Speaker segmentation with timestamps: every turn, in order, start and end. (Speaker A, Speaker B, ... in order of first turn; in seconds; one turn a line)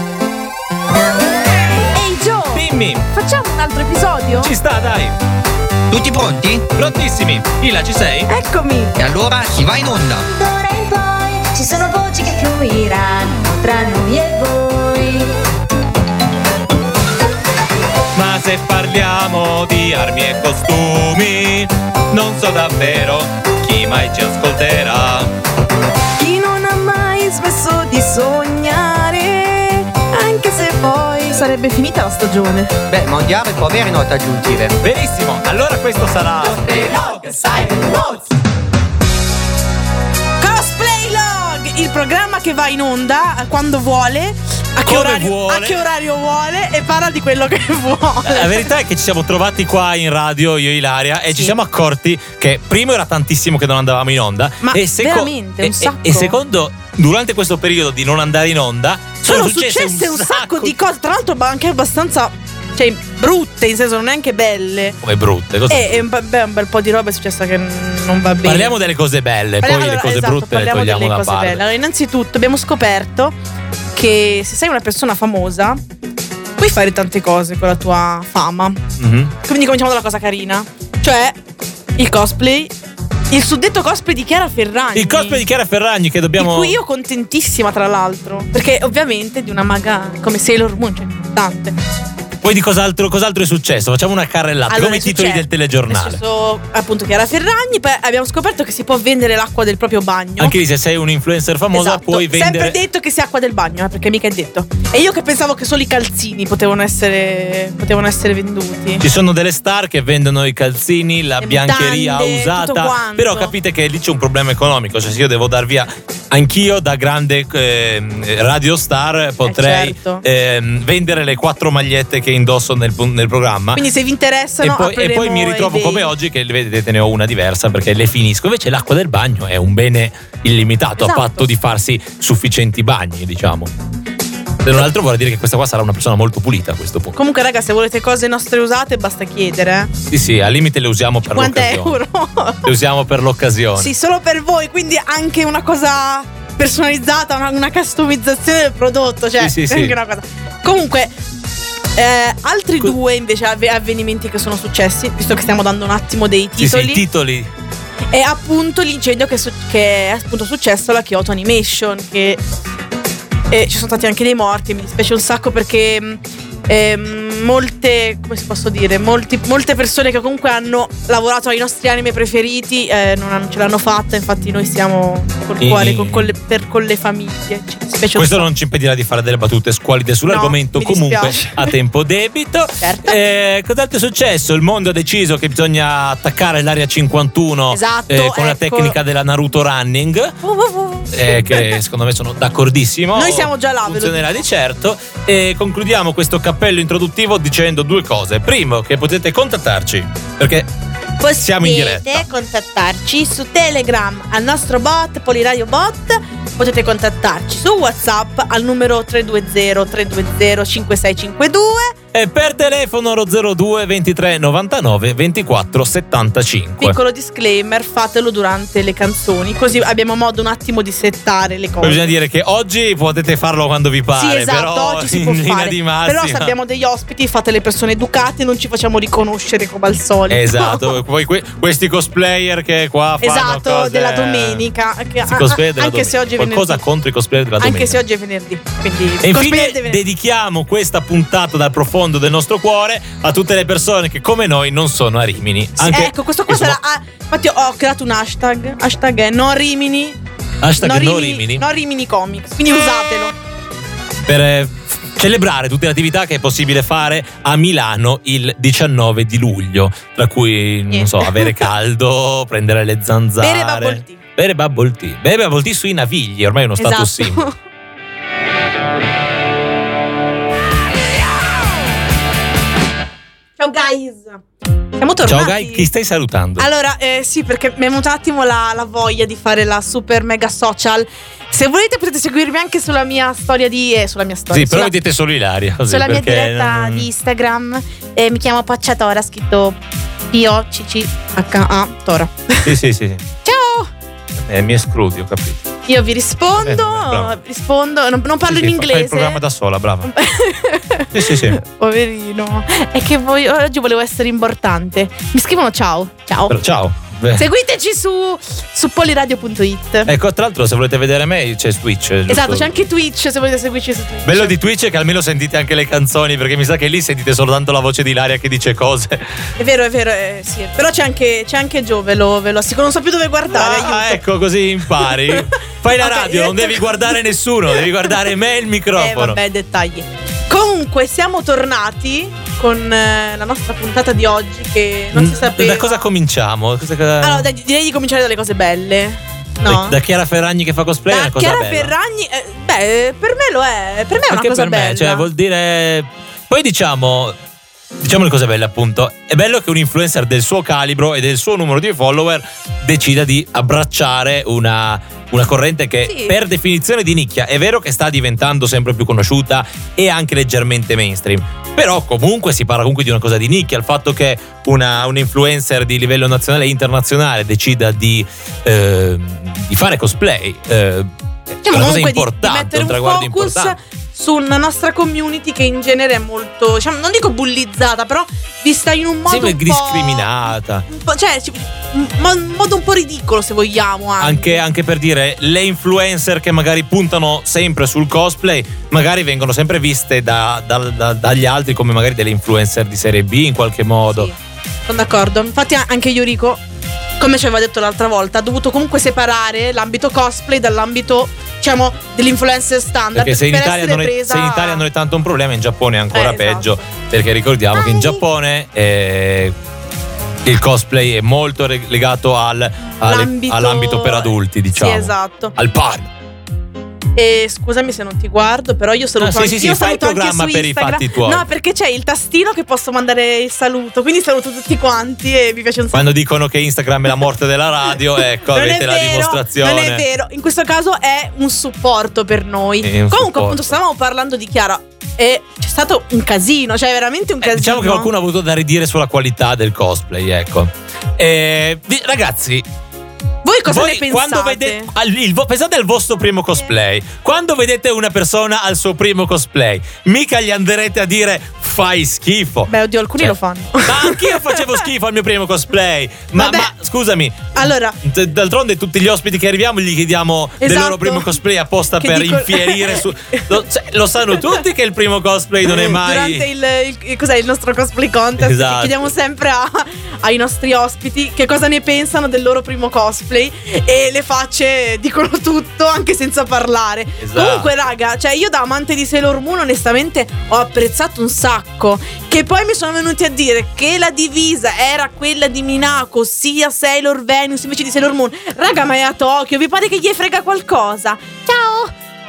Speaker A: 1.9-4.5
Speaker B: 2.5-3.1
Speaker B: 4.4-5.2
Speaker C: 5.9-6.7
Speaker B: 6.8-8.3
Speaker A: 8.3-8.9
Speaker C: 9.0-10.2
Speaker D: 10.3-15.3
Speaker B: 18.1-25.3
Speaker A: 26.2-32.8
Speaker C: 32.9-34.8
Speaker B: 34.8-36.7
Speaker A: 37.0-38.3
Speaker A: 40.4-48.7
Speaker B: 44.8-45.8
Speaker B: 48.2-60.8
Speaker A: 54.6-56.4
Speaker A: 59.2-65.0
Speaker B: 65.0-66.0
Speaker A: 65.7-68.8
Speaker B: 68.4-71.6
Speaker A: 69.6-73.3
Speaker A: 74.0-75.8
Speaker A: 76.6-78.8
Speaker B: 79.0-79.3
Speaker A: 79.4-81.4
Speaker A: 82.0-82.7
Speaker A: 83.3-85.4
Speaker B: 85.0-86.8
Speaker A: 86.4-91.8
Speaker B: 92.4-96.2
Speaker A: 94.7-100.6
Speaker B: 100.4-102.8
Speaker A: 101.7-109.0
Speaker B: 109.0-123.8
Speaker A: 111.4-113.5
Speaker A: 119.5-120.2
Speaker A: 123.7-126.1
Speaker B: 124.6-133.7
Speaker A: 131.0-131.5
Speaker B: 134.6-137.2
Speaker A: 137.2-139.9
Speaker B: 140.1-142.0
Speaker A: 141.3-142.7
Speaker B: 142.6-143.9
Speaker A: 143.8-151.2
Speaker B: 149.4-150.0
Speaker A: 151.9-157.0
Speaker B: 156.6-157.5
Speaker A: 158.1-162.4
Speaker A: 163.5-178.5
Speaker B: 175.6-176.3
Speaker B: 178.2-190.4
Speaker A: 180.3-181.8
Speaker A: 182.8-183.2
Speaker A: 187.7-189.0
Speaker A: 190.4-191.8
Speaker B: 191.1-200.7
Speaker A: 193.1-194.4
Speaker A: 201.2-212.0
Speaker B: 201.3-202.3
Speaker B: 212.1-217.0
Speaker A: 216.8-222.1
Speaker B: 221.8-226.5
Speaker A: 224.2-231.0
Speaker B: 230.3-234.7
Speaker A: 233.2-236.8
Speaker B: 235.3-238.0
Speaker A: 237.6-240.0
Speaker B: 239.2-246.8
Speaker A: 245.8-250.2
Speaker B: 250.6-251.7
Speaker A: 250.8-253.3
Speaker B: 254.3-267.4
Speaker A: 260.9-261.5
Speaker A: 263.4-264.2
Speaker A: 266.8-267.6
Speaker A: 273.6-274.4
Speaker A: 275.0-275.9
Speaker B: 275.2-276.7
Speaker A: 276.6-284.9
Speaker B: 284.5-287.1
Speaker A: 285.9-289.8
Speaker A: 290.3-292.7
Speaker B: 292.6-293.2
Speaker A: 293.4-293.9
Speaker B: 294.4-295.7
Speaker A: 295.9-299.4
Speaker B: 296.6-297.4
Speaker B: 298.5-300.1
Speaker A: 300.1-306.6
Speaker B: 301.1-301.6
Speaker B: 306.5-307.5
Speaker A: 307.4-310.1
Speaker B: 310.1-312.8
Speaker A: 312.3-314.6
Speaker B: 314.2-319.5
Speaker A: 319.6-324.2
Speaker B: 323.5-329.4
Speaker A: 325.1-325.5
Speaker A: 326.0-327.2
Speaker A: 328.9-336.1
Speaker B: 335.1-337.5
Speaker A: 337.2-340.0
Speaker B: 339.6-341.9
Speaker A: 341.1-345.3
Speaker B: 344.3-347.4
Speaker B: 348.0-373.8
Speaker A: 356.0-356.4
Speaker A: 371.6-380.3
Speaker B: 379.3-380.9
Speaker A: 380.9-384.6
Speaker B: 384.2-394.3
Speaker A: 394.1-394.4
Speaker A: 394.9-396.6
Speaker A: 397.2-404.8
Speaker B: 403.1-409.5
Speaker A: 406.1-406.8
Speaker A: 407.7-408.2
Speaker B: 410.4-416.1
Speaker A: 412.9-415.6
Speaker A: 417.2-426.1
Speaker B: 419.2-421.5
Speaker B: 425.9-430.1
Speaker A: 428.4-438.1
Speaker B: 432.8-433.8
Speaker B: 437.4-442.7
Speaker A: 443.4-444.9
Speaker B: 443.7-453.3
Speaker A: 452.7-454.8
Speaker B: 453.8-466.5
Speaker A: 456.4-456.7
Speaker A: 457.5-458.0
Speaker A: 460.6-461.3
Speaker A: 462.0-463.5
Speaker A: 465.6-491.9
Speaker B: 468.4-469.1
Speaker B: 477.2-477.7